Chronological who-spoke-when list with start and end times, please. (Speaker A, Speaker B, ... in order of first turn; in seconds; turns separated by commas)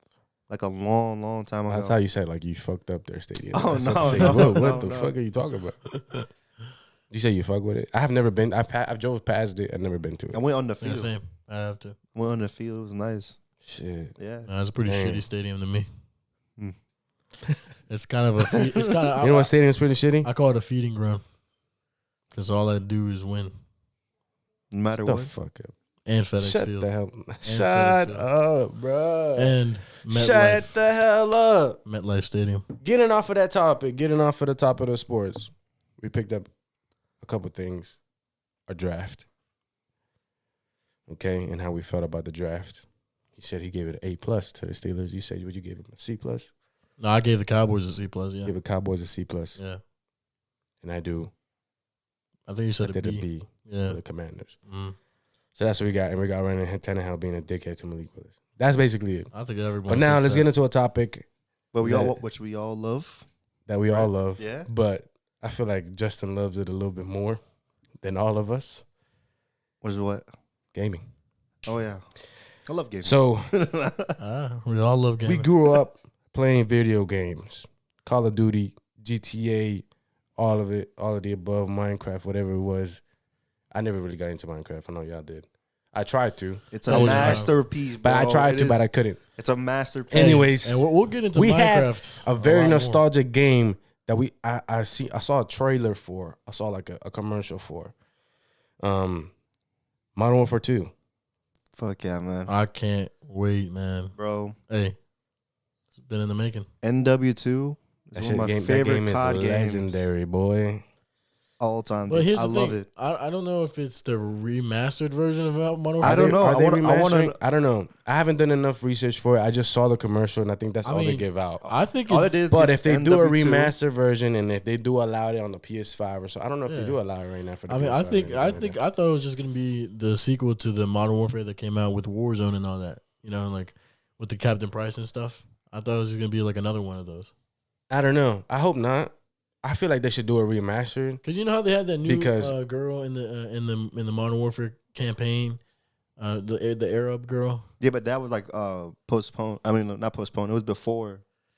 Speaker A: 0.5-2.0, Speaker B: 1.7-5.8, Speaker A: 3.5-5.1, Speaker C: 4.0-4.5, Speaker B: 7.1-10.4, Speaker A: 10.3-11.1, Speaker C: 10.8-11.9, Speaker A: 12.1-13.4, Speaker B: 13.6-14.1, Speaker A: 14.2-14.5, Speaker C: 14.4-15.9, Speaker B: 14.8-15.2, Speaker C: 17.9-19.5, Speaker A: 18.5-18.9, Speaker B: 19.2-20.3, Speaker C: 20.2-21.2, Speaker C: 22.3-23.5, Speaker A: 24.7-25.3, Speaker B: 25.0-25.7, Speaker C: 26.1-26.9, Speaker B: 26.4-31.8, Speaker C: 27.4-28.2, Speaker C: 29.4-30.7, Speaker C: 31.8-32.7, Speaker B: 32.8-36.5, Speaker B: 37.2-38.0, Speaker B: 38.7-39.2, Speaker B: 41.1-42.8, Speaker B: 43.4-46.5, Speaker C: 47.0-48.5, Speaker B: 48.4-49.6, Speaker B: 50.8-51.3, Speaker C: 52.5-54.0, Speaker B: 52.8-54.5, Speaker C: 54.7-55.0, Speaker B: 55.6-59.3, Speaker C: 59.3-60.5, Speaker B: 59.9-61.2, Speaker A: 61.7-63.2, Speaker B: 61.8-62.2, Speaker B: 63.7-67.4, Speaker A: 63.9-64.7, Speaker B: 68.0-68.8, Speaker A: 69.8-70.2, Speaker B: 70.7-71.0, Speaker A: 71.7-72.0, Speaker A: 72.7-74.2, Speaker B: 73.0-73.5, Speaker C: 74.2-75.5, Speaker B: 75.2-79.8, Speaker B: 80.4-83.0, Speaker B: 83.7-87.5, Speaker A: 86.7-90.5, Speaker C: 86.9-87.5, Speaker B: 88.0-89.2, Speaker B: 90.1-90.8, Speaker C: 90.1-93.0, Speaker B: 91.3-97.9, Speaker B: 98.8-99.3, Speaker B: 100.1-100.9, Speaker A: 101.8-102.5, Speaker C: 102.5-104.1, Speaker A: 104.2-104.6, Speaker C: 104.7-105.0, Speaker C: 106.0-106.7, Speaker A: 106.8-110.1, Speaker B: 108.2-110.8, Speaker A: 111.6-112.8, Speaker C: 112.1-116.4, Speaker A: 116.0-117.3, Speaker B: 116.0-121.6, Speaker C: 120.8-122.4, Speaker A: 121.6-123.7, Speaker B: 122.5-128.8, Speaker C: 126.7-127.0, Speaker C: 127.7-137.3, Speaker B: 137.9-141.2, Speaker C: 141.2-145.6, Speaker B: 142.0-142.5, Speaker C: 146.2-147.7, Speaker A: 147.8-151.2